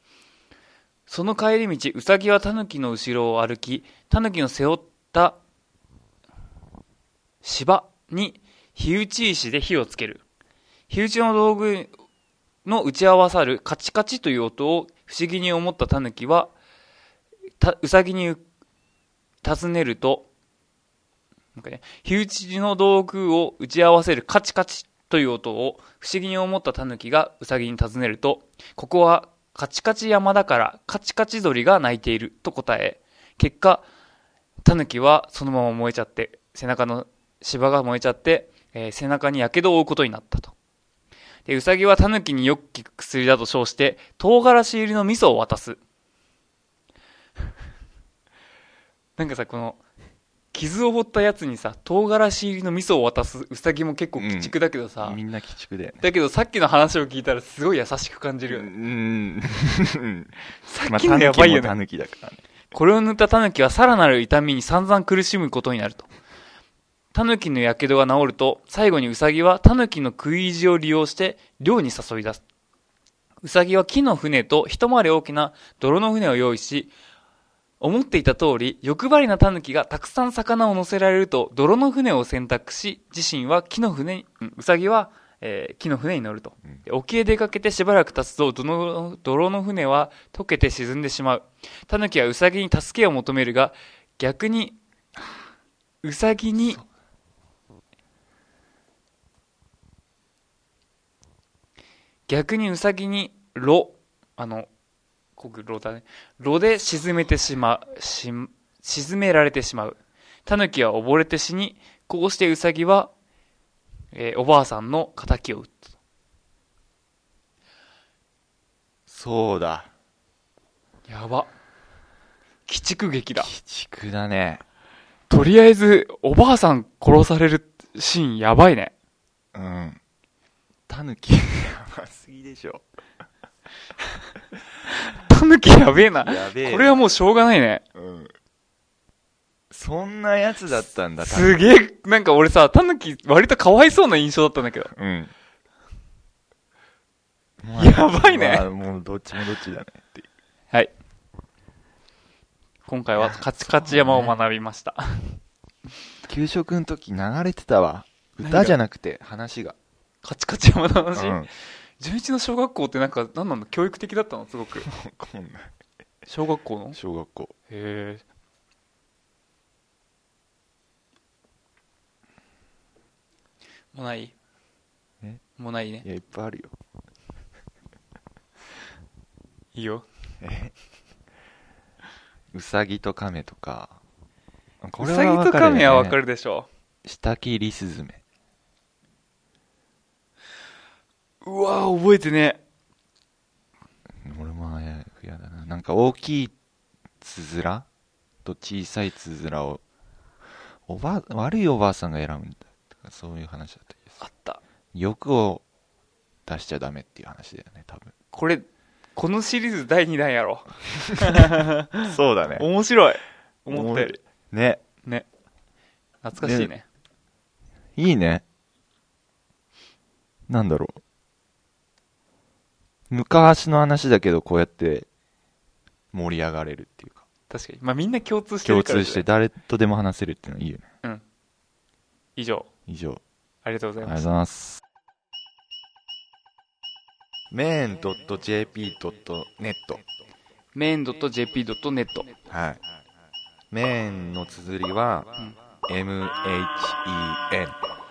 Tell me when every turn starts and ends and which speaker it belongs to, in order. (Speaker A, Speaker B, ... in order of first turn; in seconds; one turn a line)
Speaker A: 1.1-5.4
Speaker A: 7.4-10.2
Speaker A: 10.9-11.9
Speaker A: 12.6-16.5
Speaker A: 17.6-18.4
Speaker A: 19.4-20.3
Speaker A: 21.6-33.9
Speaker A: 34.6-40.5
Speaker A: 41.5-45.8
Speaker A: 49.2-49.8
Speaker A: 50.5-55.2
Speaker B: 54.2-56.0
Speaker A: 56.0-58.7
Speaker B: 58.5-60.3
Speaker A: 60.6-61.7
Speaker B: 60.9-62.4
Speaker A: 62.7-66.1
Speaker A: 67.1-72.4
Speaker A: 73.4-76.9
Speaker A: 77.8-94.8
Speaker A: 96.0-96.8
Speaker A: 102.3-104.7
Speaker A: 105.4-113.1
Speaker A: 114.1-115.8
Speaker B: 119.1-119.9
Speaker A: 121.1-121.5
Speaker A: 122.7-123.5
Speaker B: 123.3-124.6
Speaker A: 125.3-128.9
Speaker B: 129.5-130.0
Speaker B: 130.9-132.8
Speaker A: 134.9-137.8
Speaker B: 135.9-136.9
Speaker B: 137.9-138.3
Speaker B: 139.7-141.6
Speaker A: 141.2-144.9
Speaker B: 144.9-145.3
Speaker B: 147.6-150.3
Speaker A: 147.8-148.7
Speaker A: 152.8-155.4
Speaker B: 153.2-154.3
Speaker B: 156.3-159.8
Speaker A: 158.4-158.8
Speaker A: 160.2-161.4
Speaker B: 161.1-161.5
Speaker A: 162.0-164.9
Speaker B: 164.8-165.7
Speaker A: 166.3-167.0
Speaker B: 166.9-167.5
Speaker A: 167.7-168.2
Speaker A: 173.9-174.3
Speaker A: 175.6-176.0
Speaker B: 176.0-176.7
Speaker A: 179.7-180.1
Speaker B: 180.4-180.7
Speaker B: 182.5-184.0
Speaker B: 184.8-186.2
Speaker A: 185.0-186.7
Speaker B: 187.0-188.2
Speaker A: 191.4-192.6
Speaker B: 194.2-196.5
Speaker B: 197.2-197.9
Speaker B: 198.4-199.8
Speaker B: 200.9-204.2
Speaker A: 204.2-204.6
Speaker B: 204.9-205.6
Speaker B: 206.4-208.1
Speaker A: 208.3-214.2
Speaker B: 212.1-212.7
Speaker B: 213.7-214.8
Speaker A: 216.2-216.8
Speaker B: 216.4-216.7
Speaker B: 217.9-218.4
Speaker B: 220.5-221.0
Speaker B: 223.1-225.1
Speaker B: 226.1-227.2
Speaker A: 227.5-229.2
Speaker B: 228.6-230.8
Speaker A: 232.3-232.7
Speaker B: 232.9-233.2
Speaker A: 233.6-234.2
Speaker B: 234.0-234.8
Speaker B: 237.5-240.0
Speaker A: 240.7-242.3
Speaker B: 242.5-242.8
Speaker B: 243.7-245.3
Speaker B: 245.9-247.8